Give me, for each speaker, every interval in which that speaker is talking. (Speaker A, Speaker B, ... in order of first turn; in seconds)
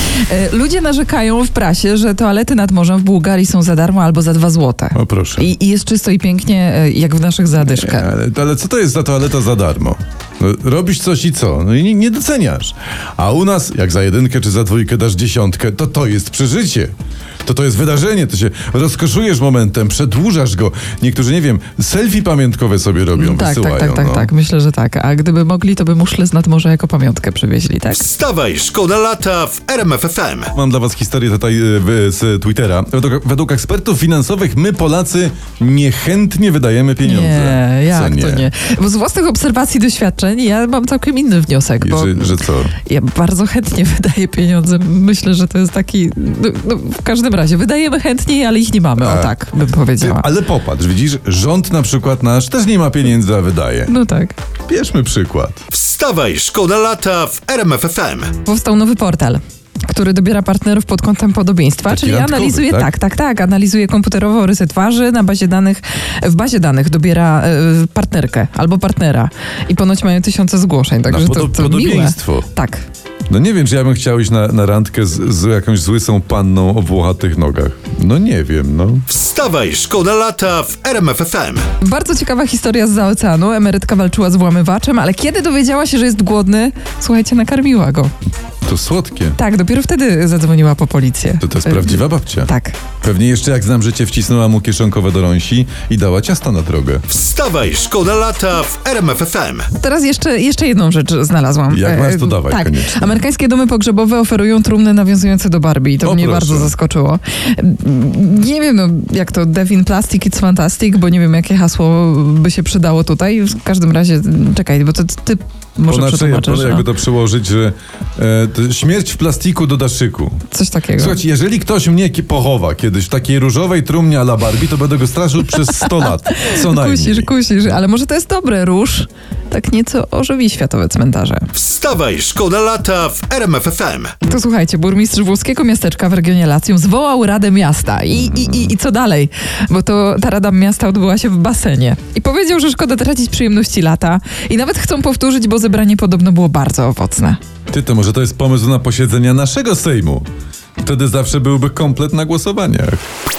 Speaker A: 0.3-8.1, 23.1-28.1, 37.0-50.3, 53.9-54.4, 58.5-72.8, 81.8-88.1, 89.4-92.8, 99.7-116.9, 120.5-121.2, 125.6-131.5, 134.2-147.4
Speaker B: 5.0-5.5, 7.7-24.3, 30.5-38.5, 41.8-42.8, 49.0-49.3, 50.0-53.9, 54.7-55.6, 61.9-62.9, 71.1-72.5, 73.3-79.1, 88.7-89.4, 91.4-92.5, 93.0-97.1, 101.7-103.2, 106.0-106.8, 115.9-120.5, 121.0-127.3, 147.7-150.3, 150.8-153.1
Speaker C: 27.9-30.5, 55.7-58.3, 79.1-81.7, 97.1-99.7, 131.5-134.2